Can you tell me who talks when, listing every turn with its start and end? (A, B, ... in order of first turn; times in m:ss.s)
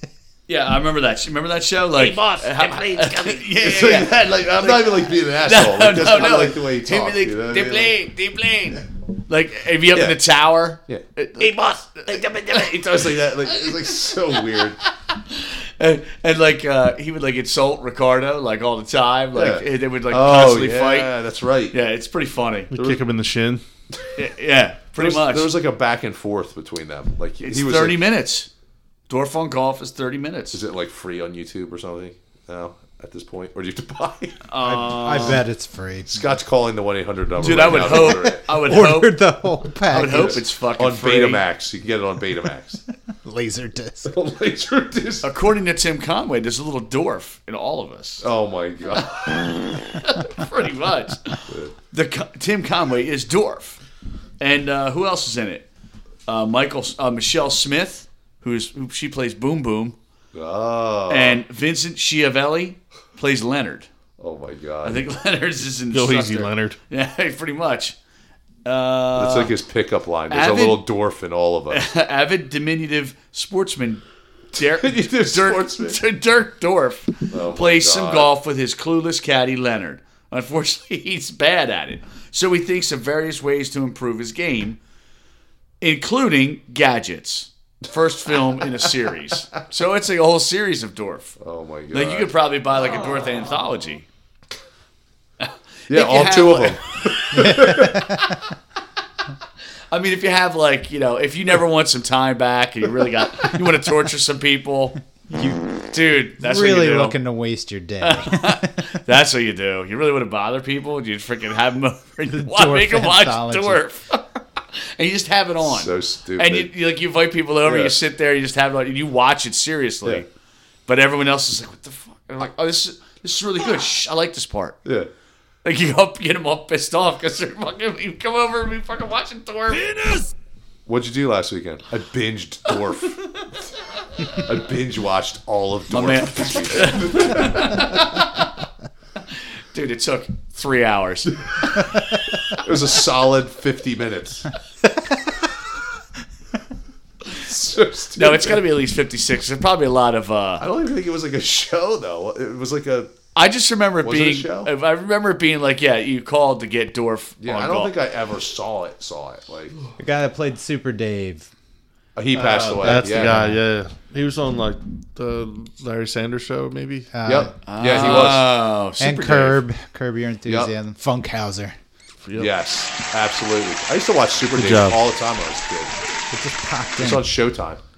0:00.5-0:13.8 A
0:02.0-0:08.0 B
0:09.9-0:10.2 B
0:10.9-0:14.8 B
0:15.1-0:21.1 A
0:19.3-0:21.8 B
0:21.7-0:22.7 A
0:22.7-0:23.6 C
0:24.2-0:25.5 A
0:25.0-0:28.1 B
0:27.4-0:28.5 A
0:29.1-0:30.6 A
0:30.5-0:34.4 B
0:34.4-0:35.4 A
0:34.6-0:36.3 D
0:36.1-0:38.4 B
0:37.4-0:39.2 A
0:37.4-0:40.4 D
0:39.9-0:41.5 A
0:39.9-0:42.8 B
0:43.2-0:44.1 D
0:44.0-0:45.3 B
0:45.2-0:48.3 A
0:48.2-0:49.5 B
0:49.1-0:53.8 A
0:51.5-0:51.7 B
0:54.4-0:55.7 A
0:56.3-1:00.0 A
1:00.3-1:01.4 B
1:01.1-1:03.9 A
1:04.2-1:05.0 B
1:04.8-1:08.0 A
1:05.9-1:06.8 C
1:08.6-1:09.5 A
1:09.1-1:11.9 B
1:10.3-1:10.9 A
1:11.7-1:24.8 A
1:14.6-1:16.0 B
1:17.3-1:18.3 B
1:25.8-1:31.4 A
1:31.4-1:32.3 B
1:31.9-1:34.1 A
1:35.4-1:37.7 A
1:35.9-1:38.0 B
1:37.3-1:38.4 D
1:39.9-1:45.0 A
1:45.3-1:45.8 D
1:45.9-1:47.2 A
1:46.4-1:48.8 D
1:48.0-2:00.3 A
1:52.3-1:53.8 D
1:55.6-1:56.7 B
1:57.6-1:58.0 B
2:00.9-2:04.8 A
2:04.8-2:05.1 B
2:05.6-2:10.2 A
2:10.9-2:13.6 B
2:14.4-2:18.0 B
2:15.9-2:18.4 A
2:19.3-2:21.4 A
2:22.5-2:24.5 B
2:27.4-2:28.6 B
2:28.1-2:30.7 A
2:30.6-2:33.1 B
2:33.4-2:37.9 A
2:34.0-2:34.7 B
2:37.4-2:39.8 B
2:40.0-2:41.5 D
2:42.2-2:43.4 B
2:42.3-2:43.6 D
2:42.8-2:47.1 C
2:47.1-2:48.3 D
2:47.2-2:48.5 B
2:47.6-2:49.6 A
2:49.0-2:51.8 D
2:50.4-2:50.7 B
2:52.2-2:52.5 C
2:52.4-2:56.0 B
2:54.6-2:55.0 C
2:56.3-2:57.3 D
2:57.0-2:57.8 B